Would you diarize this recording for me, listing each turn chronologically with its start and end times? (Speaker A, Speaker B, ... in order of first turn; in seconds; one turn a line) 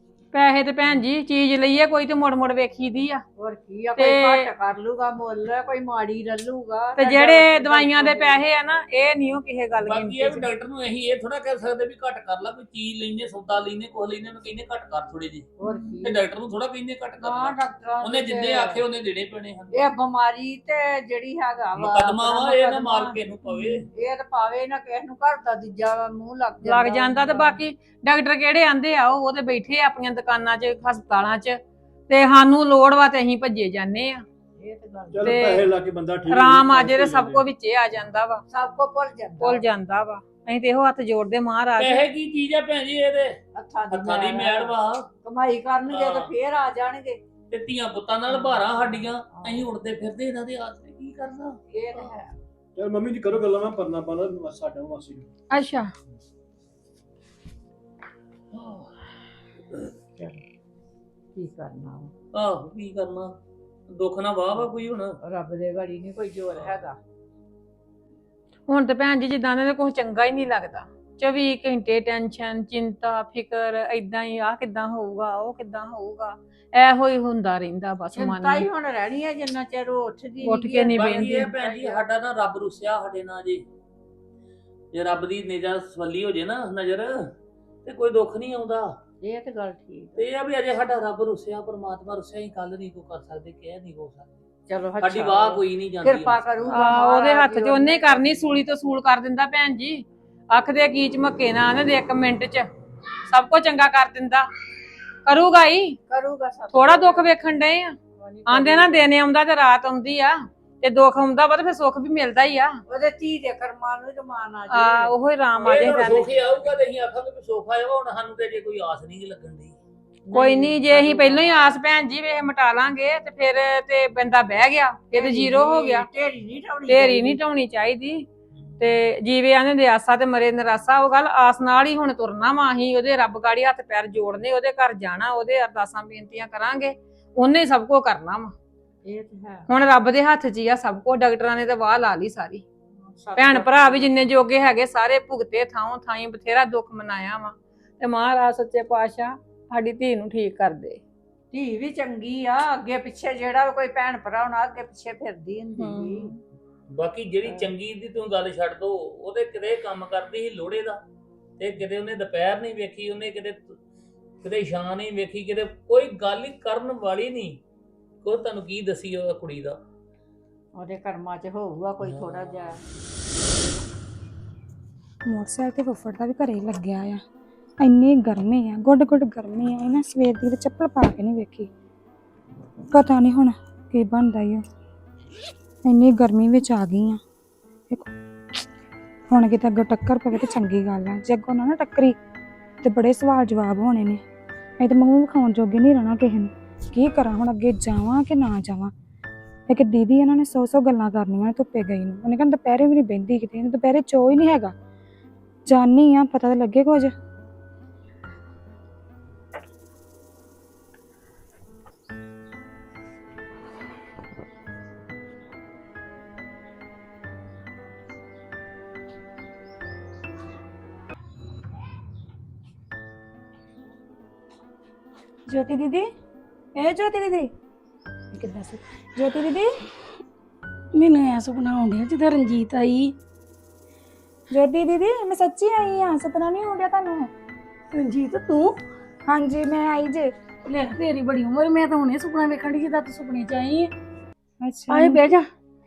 Speaker A: 0.3-3.2
Speaker B: 3.4-8.4
Speaker A: 4.0-4.5
Speaker A: 7.0-10.4
Speaker C: 9.8-15.5
Speaker B: 15.6-16.2
Speaker C: 16.0-19.9
Speaker B: 17.2-18.8
Speaker B: 19.7-23.2
Speaker C: 21.7-23.9
Speaker B: 23.9-27.6
Speaker A: 26.6-34.2
Speaker B: 34.6-35.5
Speaker D: 35.1-37.5
Speaker A: 35.2-35.7
Speaker A: 36.3-38.4
Speaker B: 38.5-39.7
Speaker A: 39.4-42.0
Speaker C: 41.8-45.1
Speaker B: 43.5-47.2
Speaker C: 45.9-46.4
Speaker C: 47.5-52.1
Speaker B: 48.3-49.7
Speaker B: 51.7-52.3
Speaker D: 52.8-55.3
Speaker E: 55.5-55.9
Speaker C: 58.5-58.9
Speaker B: 61.4-62.1
Speaker C: 62.3-63.4
Speaker C: 63.9-65.2
Speaker B: 65.2-67.0
Speaker A: 68.7-78.7
Speaker B: 78.1-82.0
Speaker A: 80.4-81.5
Speaker C: 80.9-83.7
Speaker C: 84.9-87.3
Speaker C: 87.8-88.9
Speaker B: 89.2-90.2
Speaker C: 90.2-94.4
Speaker B: 94.7-98.6
Speaker C: 95.0-96.8
Speaker A: 96.7-102.7
Speaker A: 103.3-104.5
Speaker A: 105.2-106.0
Speaker B: 106.1-107.3
Speaker A: 106.7-112.8
Speaker B: 108.2-109.1
Speaker B: 112.9-116.2
Speaker A: 114.7-116.3
Speaker C: 115.6-119.8
Speaker B: 120.2-121.8
Speaker A: 120.3-126.1
Speaker B: 125.1-127.4
Speaker A: 126.9-128.3
Speaker A: 128.8-138.5
Speaker B: 139.0-139.7
Speaker A: 139.7-142.7
Speaker B: 143.0-144.1
Speaker A: 143.3-151.0
Speaker B: 151.5-156.4
Speaker A: 155.8-156.3
Speaker C: 156.9-161.0
Speaker C: 161.6-163.8
Speaker C: 164.4-167.6
Speaker C: 168.2-169.8
Speaker B: 170.7-172.8
Speaker F: 175.3-177.2
Speaker F: 177.8-181.7
Speaker F: 182.9-184.6
Speaker F: 185.9-187.2
Speaker F: 189.3-192.2
Speaker F: 192.8-194.2
Speaker F: 194.8-198.9
Speaker F: 199.7-204.7
Speaker F: 205.7-207.1
Speaker F: 225.5-226.1
Speaker F: 226.8-227.5
Speaker F: 228.3-229.7
Speaker E: 230.9-233.1
Speaker F: 234.5-237.3
Speaker E: 237.9-238.8
Speaker F: 239.3-240.3
Speaker E: 240.7-243.9
Speaker F: 244.6-245.2
Speaker E: 244.9-245.5